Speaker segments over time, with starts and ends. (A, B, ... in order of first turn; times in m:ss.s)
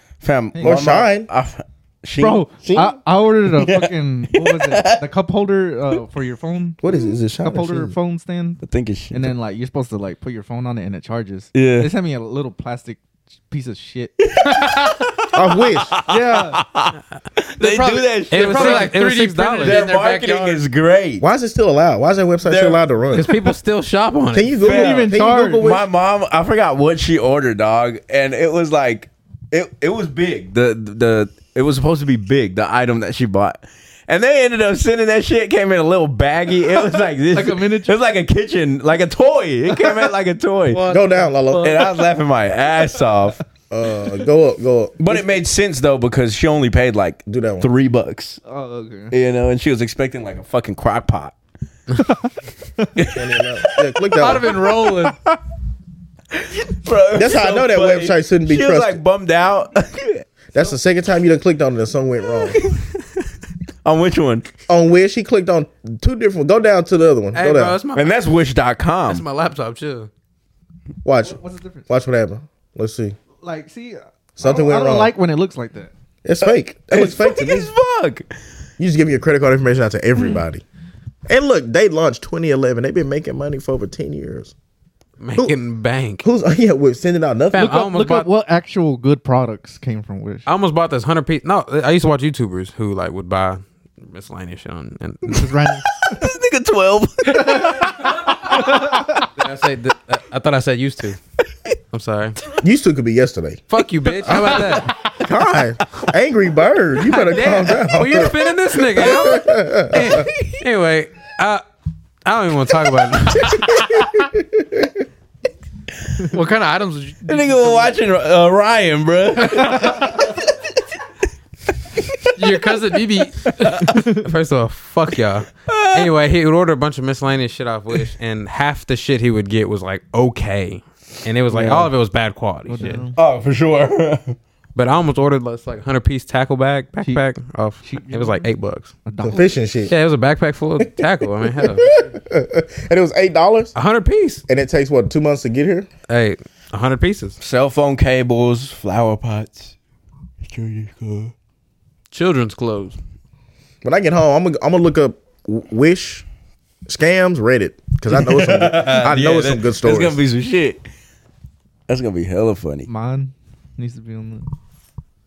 0:00.2-0:05.0 A
0:00.5-0:00.8 B
0:00.6-0:01.3 C
0:02.2-0:06.8 B
0:06.8-0:07.9 C
0:07.4-0:14.1 B
0:08.6-0:09.3 A
0:11.5-0:11.9 A
0:14.2-0:19.0 A
0:15.3-0:15.9 C
0:16.1-0:16.6 B
0:17.6-0:20.6 D
0:18.3-0:19.9 E
0:19.6-0:21.2 A
0:21.2-0:23.3 C
0:22.4-0:23.5 A
0:23.1-0:24.6 E
0:24.3-0:25.9 C
0:24.6-0:40.8 A
0:24.6-0:25.6 B
0:36.8-0:38.0 B
0:40.7-0:41.8 B
0:40.9-0:41.7 C
0:41.6-0:43.4 A
0:43.7-0:45.0 C
0:45.0-0:48.4 A
0:47.3-0:47.7 C
0:48.4-0:49.1 B
0:49.1-0:51.4 A
0:52.0-0:52.9 B
0:53.0-0:55.0 A
0:53.1-0:54.6 C
0:54.2-0:55.2 D
0:56.4-1:00.2 A
0:57.1-0:59.0 C
1:00.5-1:02.6 C
1:02.5-1:02.9 A
1:03.8-1:04.5 A
1:04.7-1:07.8 C
1:07.3-1:08.2 E
1:07.9-1:09.2 A
1:09.1-1:10.1 E
1:11.0-1:13.2 C
1:11.2-1:11.9 B
1:13.4-1:15.9 B
1:14.4-1:15.1 C
1:16.2-1:17.7 C
1:16.9-1:18.3 A
1:18.8-1:20.6 C
1:21.3-1:24.5 C
1:25.2-1:26.2 E
1:26.2-1:27.8 C
1:27.5-1:28.3 E
1:27.5-1:30.5 B
1:30.4-1:35.5 E
1:35.2-1:36.2 B
1:36.0-1:39.3 A
1:37.4-1:37.8 B
1:38.3-1:38.8 E
1:38.5-1:39.1 B
1:39.4-1:41.2 E
1:41.9-1:42.4 E
1:42.6-1:43.6 C
1:43.7-1:45.0 E
1:44.3-1:50.2 C
1:47.0-1:51.6 E
1:50.2-1:50.6 A
1:52.2-1:54.1 E
1:54.2-1:54.9 C
1:56.3-1:57.9 D
1:57.2-2:00.5 A
1:59.4-2:00.0 D
2:02.0-2:02.9 A
2:02.4-2:03.8 D
2:03.6-2:03.8 A
2:03.7-2:13.0 E
2:03.8-2:04.3 B
2:05.6-2:06.1 A
2:11.5-2:11.9 A
2:12.7-2:13.2 B
2:13.1-2:14.4 A
2:14.8-2:18.9 E
2:17.8-2:18.5 B
2:19.0-2:19.5 B
2:19.2-2:19.9 C
2:19.9-2:21.9 E
2:21.5-2:23.7 C
2:23.7-2:24.4 E
2:24.5-2:25.9 C
2:26.1-2:27.4 E
2:27.4-2:29.7 A
2:30.4-2:31.3 A
2:32.1-2:33.0 E
2:33.8-2:36.2 C
2:36.9-2:40.2 C
2:38.1-2:40.8 A
2:41.9-2:42.9 A
2:42.9-2:44.5 B